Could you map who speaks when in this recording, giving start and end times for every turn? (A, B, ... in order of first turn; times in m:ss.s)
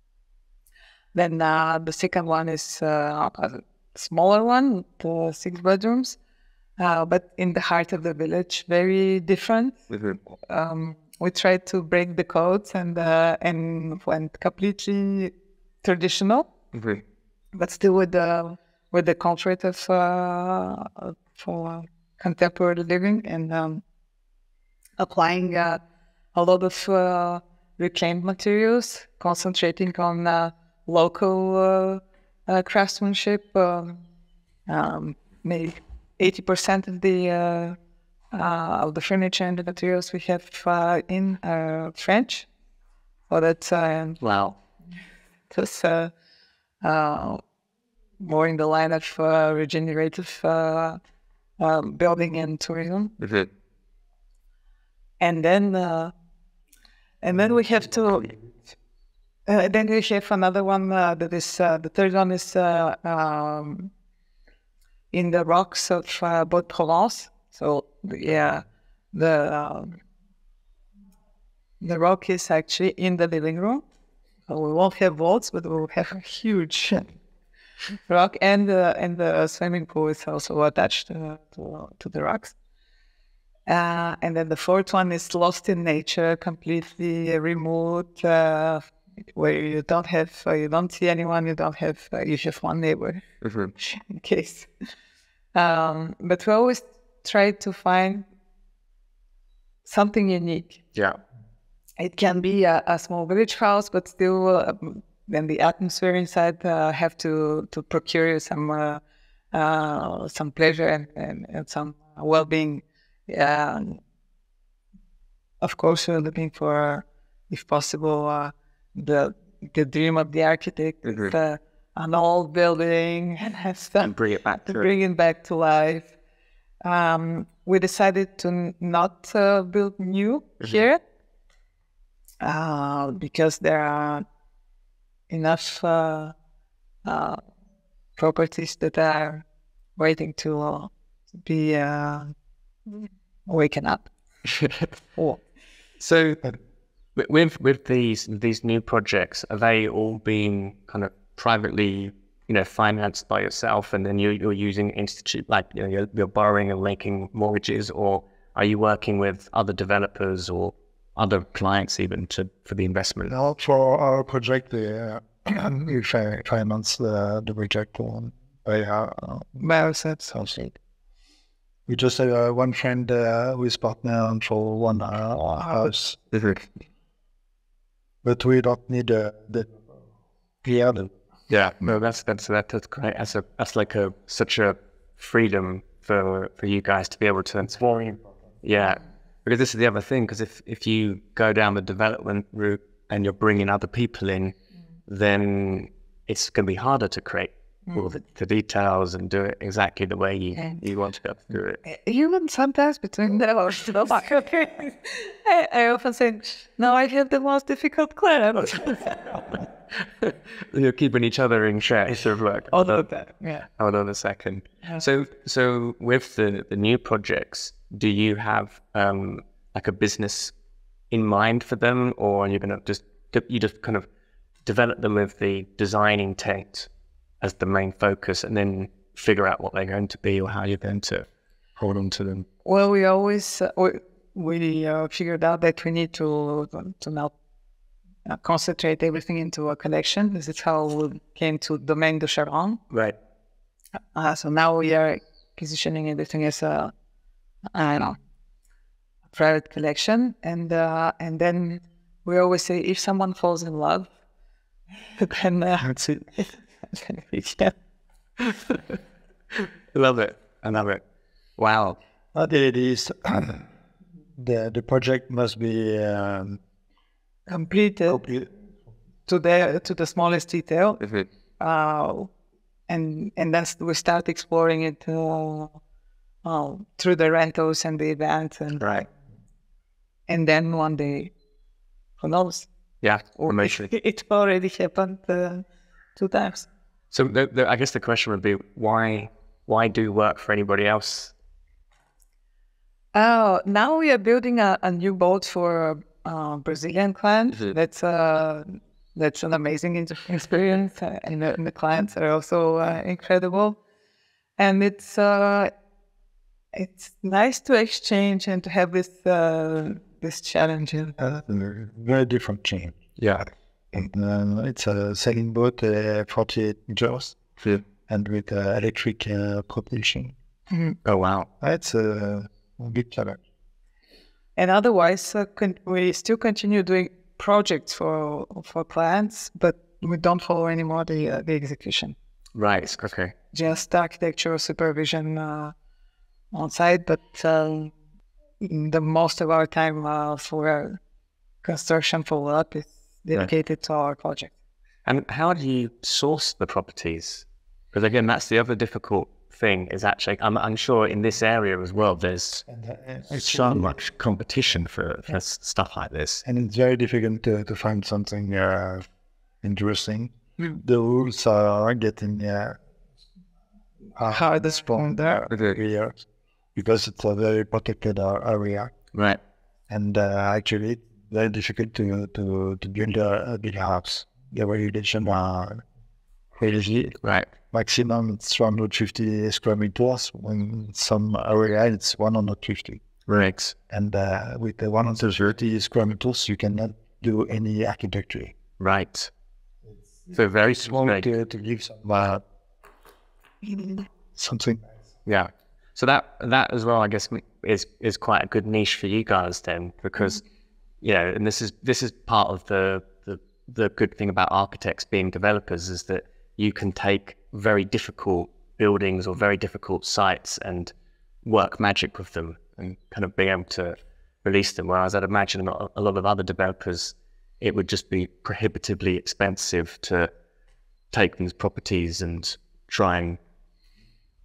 0:01.1-0:06.2 A
0:06.8-0:09.8 A
0:09.9-0:10.2 B
0:10.5-0:16.5 A
0:16.7-0:17.0 B
0:17.5-0:23.8 A
0:25.0-0:25.8 A
0:26.3-0:34.0 A
0:34.7-0:37.8 A
0:38.3-0:42.5 A
0:43.3-0:44.2 A
0:44.2-0:44.5 B
0:45.5-0:46.1 A
0:46.8-0:47.4 A
0:48.2-0:51.0 A
0:51.6-0:53.1 A
0:53.2-0:53.5 B
0:55.2-0:56.1 A
0:57.2-0:58.4 A
0:59.4-1:03.9 A
1:05.1-1:10.0 A
1:11.8-1:13.8 A
1:14.5-1:17.2 A
1:18.1-1:22.5 A
1:23.7-1:28.8 A
1:29.4-1:33.2 A
1:33.4-1:33.7 B
1:33.8-1:34.7 A
1:35.5-1:38.2 A
1:39.8-1:40.8 A
1:42.0-1:54.0 A
1:55.6-2:04.1 A
2:01.0-2:01.3 B
2:04.0-2:04.9 B
2:04.7-2:06.1 A
2:06.8-2:11.0 A
2:12.4-2:14.2 A
2:15.3-2:16.3 A
2:17.0-2:17.4 A
2:18.2-2:19.4 A
2:20.0-2:20.9 A
2:21.4-2:22.3 A
2:22.9-2:24.1 A
2:24.4-2:24.9 B
2:26.0-2:26.5 B
2:27.2-2:43.3 B
2:43.2-2:49.6 C
2:49.6-2:50.5 A
2:50.3-2:50.7 C
2:51.9-2:56.2 C
2:56.3-2:56.6 B
2:58.2-2:59.7 C
3:00.6-3:01.1 C
3:01.5-3:14.5 B
3:15.1-3:21.8 B
3:21.8-3:29.6 A
3:30.0-3:33.0 B
3:32.7-3:33.6 A
3:33.8-3:40.5 B
3:41.1-3:44.0 B
3:44.6-3:46.9 B
3:47.4-3:51.2 B
3:51.8-3:52.4 B
3:52.6-3:57.3 A
3:58.2-4:02.8 A
4:02.9-4:03.2 B
4:04.1-4:06.9 A
4:07.7-4:08.2 A
4:09.3-4:14.1 A
4:15.2-4:17.7 A
4:18.4-4:18.9 B
4:19.5-4:21.0 B
4:21.6-4:22.0 B
4:22.3-4:23.7 C
4:24.4-4:26.6 C
4:27.5-4:28.2 A
4:28.1-4:28.5 C
4:29.3-4:31.0 A
4:31.0-4:31.3 B
4:31.6-4:32.3 A
4:32.9-4:35.8 A
4:36.4-4:38.9 A
4:38.8-4:39.1 B
4:40.3-4:41.3 A
4:42.2-4:42.7 A
4:43.0-4:43.9 B
4:43.4-4:45.6 A
4:46.2-4:46.7 A
4:47.1-4:51.3 B
4:53.1-5:03.8 A
5:04.6-5:05.7 A
5:06.7-5:11.2 A
5:11.2-5:13.0 C
5:13.2-5:13.4 B
5:13.9-5:17.4 C
5:18.0-5:20.3 C
5:20.7-5:21.0 A
5:21.0-5:21.5 B
5:21.6-5:23.4 C
5:24.6-5:32.1 A
5:32.5-5:33.3 B
5:33.5-5:35.7 A
5:36.5-5:37.9 A
5:38.6-5:41.0 A
5:41.6-5:44.5 A
5:45.0-5:52.6 B
5:52.7-5:53.9 C
5:53.3-5:56.4 B
5:56.4-5:59.0 C
5:59.6-6:02.8 C
6:04.2-6:06.2 C
6:04.3-6:05.5 A
6:06.7-6:08.9 C
6:09.1-6:09.4 B
6:09.9-6:15.8 C
6:16.5-6:17.2 C
6:17.2-6:17.5 B
6:17.7-6:23.0 C
6:23.3-6:23.7 B
6:23.9-6:28.5 C
6:28.8-6:29.3 B
6:30.3-6:31.3 B
6:30.8-6:32.4 C
6:34.3-6:34.8 C
6:35.2-6:40.4 B
6:41.0-6:50.9 B
6:51.4-7:00.3 B
7:01.1-7:03.4 B